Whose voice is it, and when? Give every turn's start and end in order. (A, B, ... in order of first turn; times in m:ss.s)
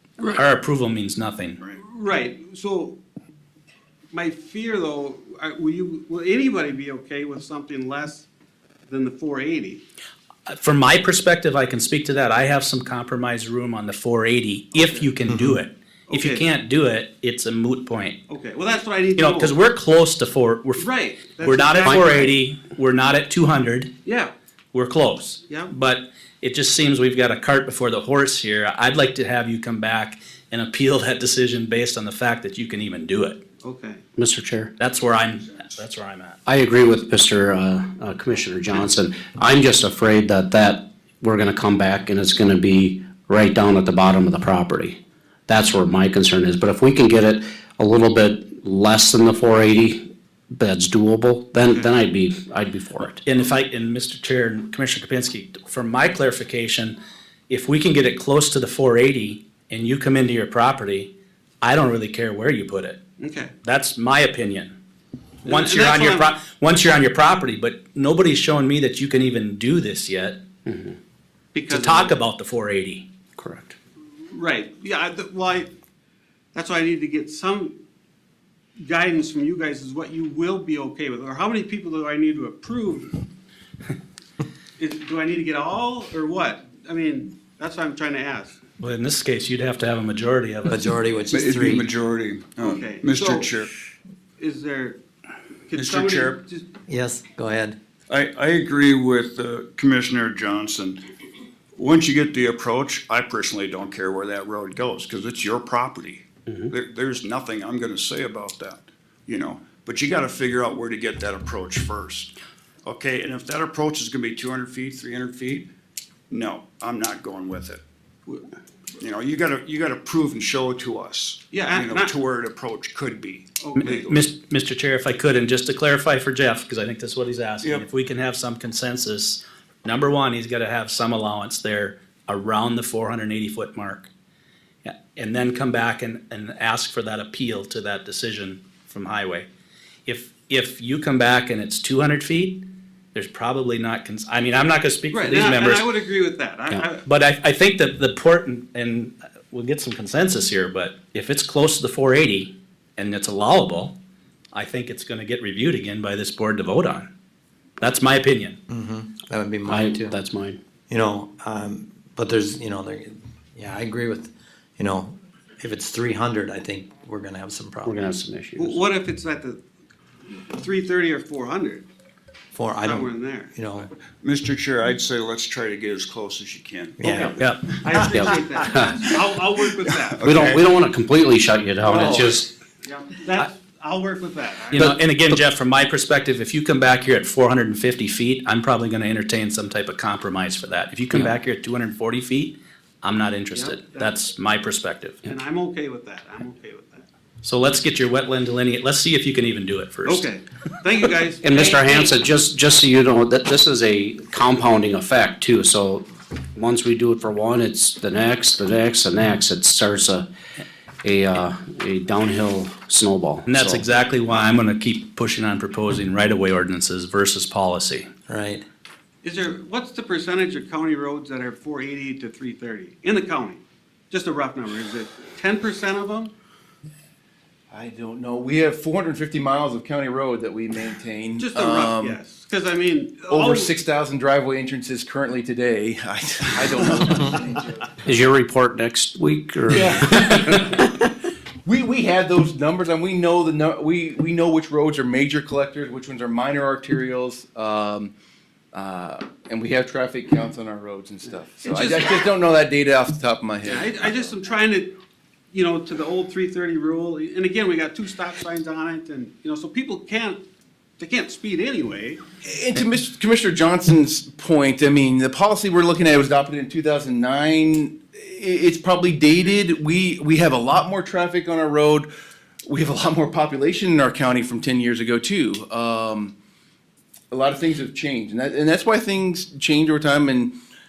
0:00.2-0:01.6 A
0:01.8-0:03.0 B
0:04.1-0:08.3 B
0:08.9-0:09.8 B
0:10.5-0:18.2 A
0:14.7-0:15.1 B
0:15.3-0:15.6 C
0:16.1-0:16.5 B
0:18.3-0:19.6 B
0:19.2-0:20.9 A
0:20.8-0:22.3 B
0:21.4-0:23.9 A
0:21.8-0:22.1 D
0:24.0-0:24.3 B
0:24.7-0:33.4 A
0:25.5-0:25.7 B
0:33.6-0:34.0 B
0:34.2-0:34.7 D
0:34.8-0:36.4 A
0:36.5-0:53.2 D
0:53.1-0:57.0 A
0:57.5-1:03.0 A
1:03.2-1:03.5 B
1:03.6-1:04.8 A
1:05.4-1:10.4 A
1:05.4-1:06.4 B
1:10.7-1:11.0 D
1:11.5-1:12.2 B
1:11.7-1:13.1 A
1:13.4-1:13.8 D
1:14.3-1:15.7 B
1:16.5-1:17.8 B
1:18.8-1:23.2 B
1:24.8-1:28.6 B
1:28.8-1:30.9 A
1:30.7-1:31.9 C
1:31.3-1:33.7 E
1:32.6-1:33.5 B
1:34.4-1:35.0 B
1:35.7-1:36.7 B
1:35.8-1:36.4 E
1:36.9-1:37.8 C
1:38.1-1:41.0 E
1:41.8-1:52.3 E
1:52.8-1:55.7 E
1:56.3-1:57.8 E
1:59.0-2:04.3 E
2:01.5-2:02.1 B
2:03.6-2:04.0 B
2:03.8-2:14.1 A
2:14.8-2:19.5 A
2:20.1-2:25.9 A
2:25.1-2:27.1 B
2:27.0-2:34.0 A
2:34.5-2:37.1 A
2:37.8-2:38.6 A
2:38.7-2:40.2 C
2:39.7-2:40.6 D
2:40.9-2:48.0 C
2:47.8-2:48.8 D
2:48.6-2:49.6 B
2:50.2-2:51.8 B
2:52.5-2:53.9 C
2:52.8-2:53.5 B
2:54.2-2:58.3 E
2:57.0-2:57.4 C
2:57.1-3:00.2 B
2:57.4-2:57.7 A
2:58.1-2:58.9 D
2:59.8-3:00.6 E
3:00.2-3:02.5 D
3:01.8-3:05.0 B
3:01.9-3:02.4 C
3:04.7-3:15.4 A
3:04.7-3:05.4 D
3:13.5-3:14.2 B
3:15.2-3:17.1 B
3:17.4-3:20.3 A
3:20.0-3:22.1 B
3:21.4-3:30.3 D
3:31.0-3:33.9 D
3:33.5-3:38.1 A
3:38.3-3:38.6 C
3:39.2-3:46.3 B
3:47.7-3:52.2 F
3:51.4-3:53.8 B
3:53.3-3:57.9 F
3:58.0-4:00.9 D
3:59.7-4:00.9 F
4:01.6-4:08.1 F
4:08.7-4:14.3 F
4:11.6-4:12.2 B
4:13.6-4:14.9 B
4:15.5-4:20.4 B
4:21.0-4:22.2 B
4:22.4-4:32.1 F
4:32.7-4:36.3 F
4:37.3-4:40.6 F